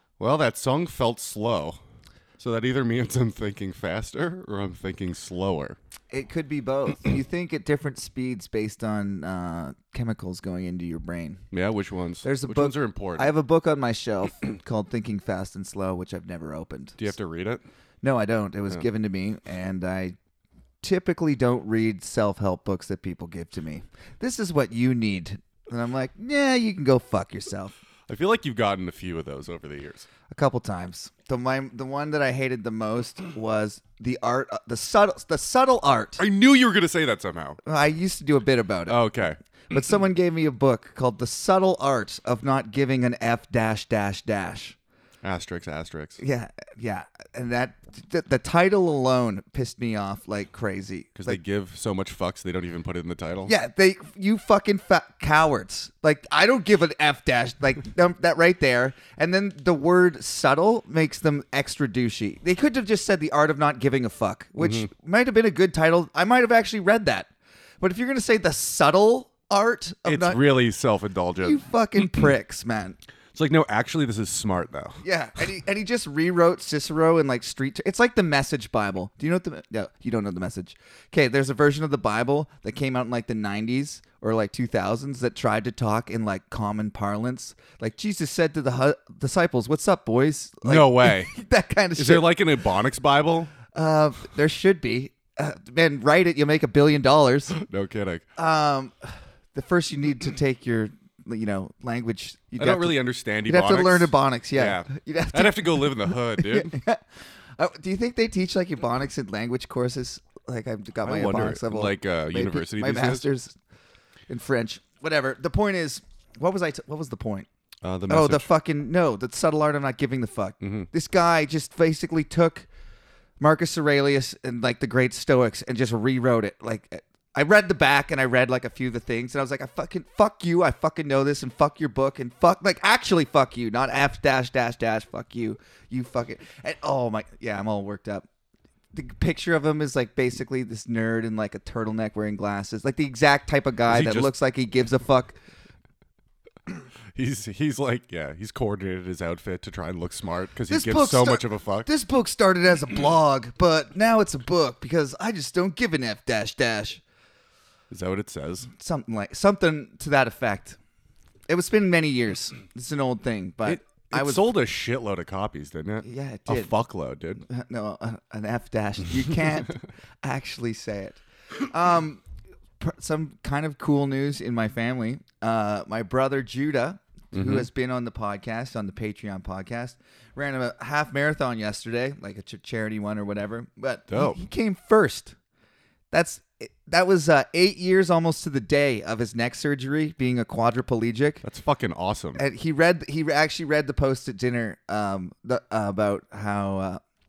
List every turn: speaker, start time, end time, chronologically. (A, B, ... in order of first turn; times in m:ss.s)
0:00.2-0:01.8 A
0:02.4-0:05.8 A
0:06.1-0:11.4 B
0:11.5-0:13.3 A
0:12.2-0:17.1 B
0:17.0-0:17.6 A
0:18.0-0:20.1 B
0:20.8-0:27.7 B
0:28.1-0:30.1 A
0:30.3-0:36.2 B
0:36.2-0:37.6 A
0:37.6-0:39.0 B
0:38.9-0:39.4 A
0:39.7-0:44.8 B
0:45.2-0:46.2 A
0:46.2-0:51.4 B
0:51.2-0:53.5 A
0:53.4-1:07.3 B
1:04.6-1:04.9 A
1:07.8-1:10.4 B
1:10.0-1:12.3 A
1:11.4-1:13.0 B
1:13.3-1:15.0 A
1:15.0-1:32.3 B
1:30.6-1:31.3 A
1:32.0-1:33.5 A
1:33.7-1:37.6 B
1:37.6-1:38.2 A
1:38.4-1:47.0 B
1:42.6-1:46.8 A
1:47.6-1:53.5 B
1:51.0-1:53.2 A
1:54.3-1:57.5 B
1:57.8-1:58.5 A
1:58.1-2:02.7 B
2:00.6-2:00.9 A
2:03.4-2:18.2 B
2:18.9-2:25.4 B
2:23.9-2:24.3 A
2:27.1-2:31.9 A
2:30.7-2:37.0 B
2:37.9-2:38.7 A
2:38.7-2:40.8 B
2:41.5-2:44.5 B
2:43.6-2:47.4 A
2:46.0-2:46.7 B
2:47.4-2:52.2 B
2:52.8-3:05.4 B
2:57.3-2:57.7 A
3:04.1-3:04.4 A
3:06.1-3:11.4 B
3:11.4-3:12.4 A
3:12.4-3:17.0 B